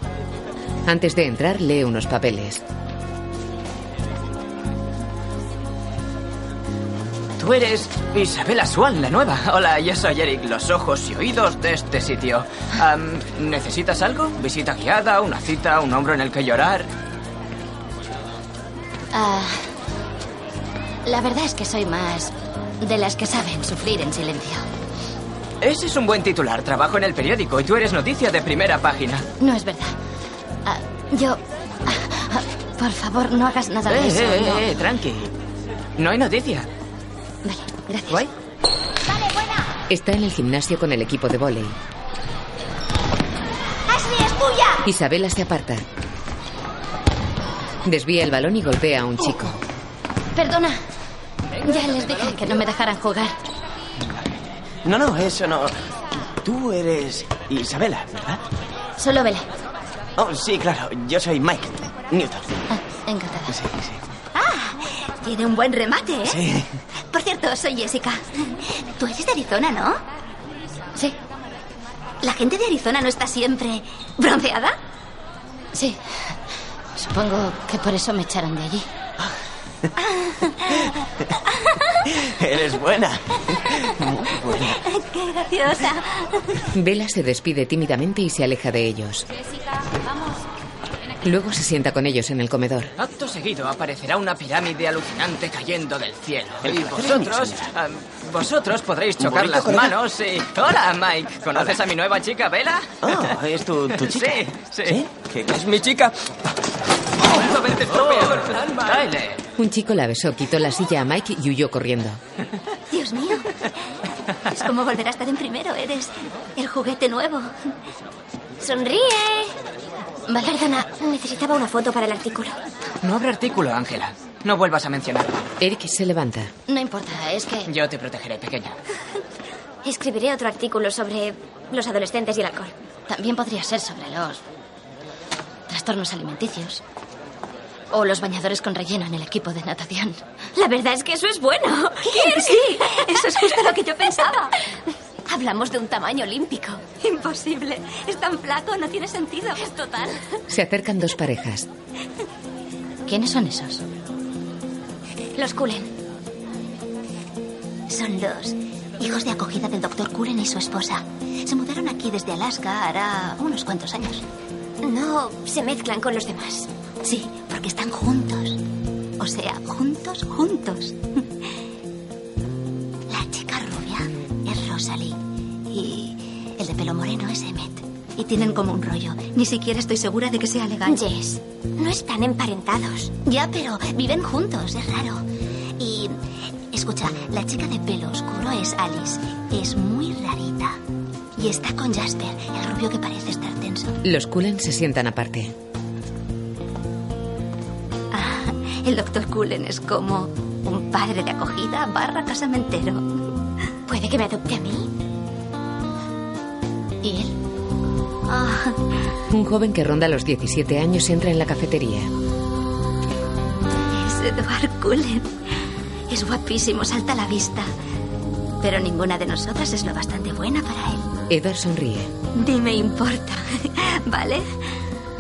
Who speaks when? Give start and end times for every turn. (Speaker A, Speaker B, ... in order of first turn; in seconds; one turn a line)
Speaker A: 0.9-2.6
Speaker B: 7.4-16.9
Speaker C: 19.1-19.7
Speaker C: 21.1-24.7
Speaker B: 25.6-29.3
Speaker C: 29.4-30.0
Speaker C: 30.6-34.6
Speaker B: 33.9-35.3
Speaker B: 36.0-36.7
Speaker C: 37.4-38.3
Speaker D: 39.2-39.5
Speaker A: 39.9-41.8
Speaker D: 43.9-44.8
Speaker A: 44.8-45.9
Speaker A: 47.9-49.6
Speaker C: 50.4-50.8
Speaker C: 51.6-53.4
Speaker E: 54.1-55.7
Speaker E: 56.4-58.4
Speaker C: 59.0-59.5
Speaker E: 60.2-62.6
Speaker C: 62.7-63.5
Speaker E: 63.5-64.0
Speaker D: 64.3-66.4
Speaker E: 66.2-66.7
Speaker D: 67.1-68.2
Speaker D: 68.8-70.0
Speaker D: 72.2-74.8
Speaker C: 75.8-76.4
Speaker C: 76.9-78.9
Speaker E: 82.1-84.8
Speaker D: 84.8-86.3
Speaker A: 86.7-89.3
Speaker A: 91.2-92.9
Speaker B: 93.0-103.3
Speaker E: 96.7-97.7
Speaker E: 99.2-99.9
Speaker E: 103.0-105.7
Speaker B: 103.9-105.0
Speaker B: 105.5-106.0
Speaker B: 107.2-109.4
Speaker A: 109.6-112.2
Speaker D: 112.9-113.7
Speaker D: 114.5-117.5
Speaker D: 118.6-119.5
Speaker C: 120.3-120.8
Speaker D: 120.4-122.6
Speaker B: 123.0-125.4
Speaker A: 125.6-126.5
Speaker C: 126.7-127.7
Speaker B: 127.7-128.8
Speaker D: 129.8-132.8
Speaker C: 133.1-134.4
Speaker C: 135.7-136.8
Speaker C: 137.9-140.2
Speaker D: 140.6-144.5
Speaker D: 145.3-150.2
Speaker A: 150.5-151.7
Speaker C: 153.1-153.8
Speaker D: 155.4-155.9
Speaker D: 157.9-164.2
Speaker D: 164.8-168.6
Speaker D: 169.2-171.0
Speaker D: 173.1-175.2
Speaker D: 175.7-185.2
Speaker D: 185.8-190.8
Speaker D: 191.4-194.0
Speaker A: 194.0-195.5
Speaker D: 198.1-203.1
Speaker D: 203.9-204.9
Speaker D: 207.1-207.3
Speaker D: 208.3-208.7
Speaker A: 209.3-212.1
Speaker D: 214.0-215.2
Speaker D: 216.1-217.6
Speaker C: 218.7-219.9
Speaker D: 220.2-221.0
Speaker A: 221.3-222.1
Speaker D: 222.4-223.2
Speaker D: 224.1-224.4